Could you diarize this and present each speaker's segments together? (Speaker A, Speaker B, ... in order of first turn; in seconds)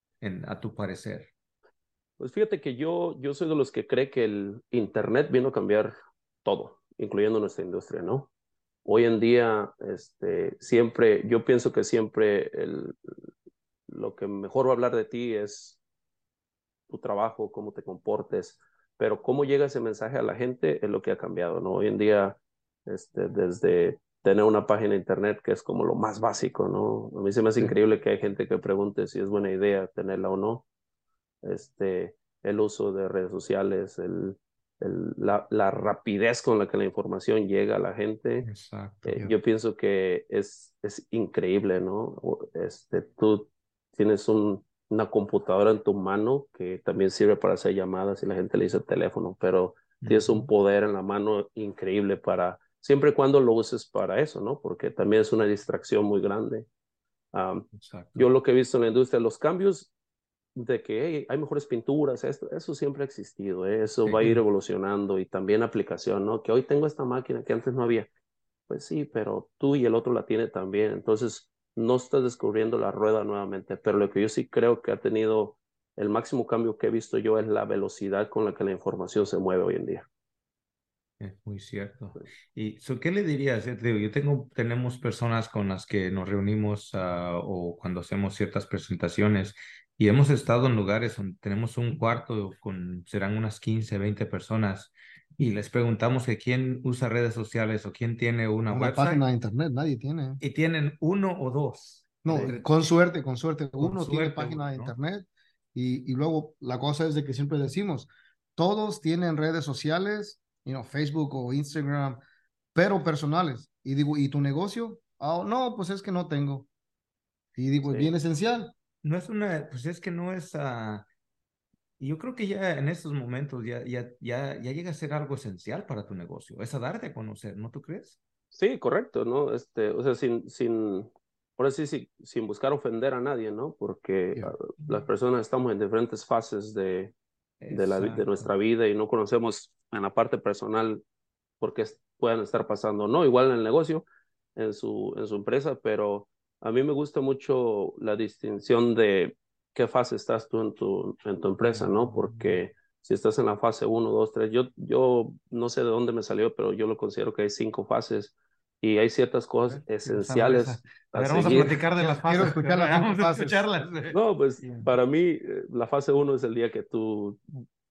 Speaker A: 0.2-1.3, 38.4-39.3, 50.0-50.5, 57.7-58.3, 64.0-64.4, 81.2-99.2, 100.4-102.8, 103.8-104.9, 119.0-121.1, 122.0-128.2, 137.6-138.5, 159.7-164.9
Speaker B: 2.2-8.3, 8.8-13.0, 13.9-15.8, 16.9-30.7, 31.4-38.5, 39.0-56.7, 57.3-59.9, 60.6-68.1, 68.7-80.1, 117.8-118.1, 128.5-137.1, 137.7-141.0, 141.6-161.8, 164.1-167.5
Speaker C: 98.7-100.4, 102.2-112.2, 112.8-116.7, 117.6-118.7, 161.4-163.6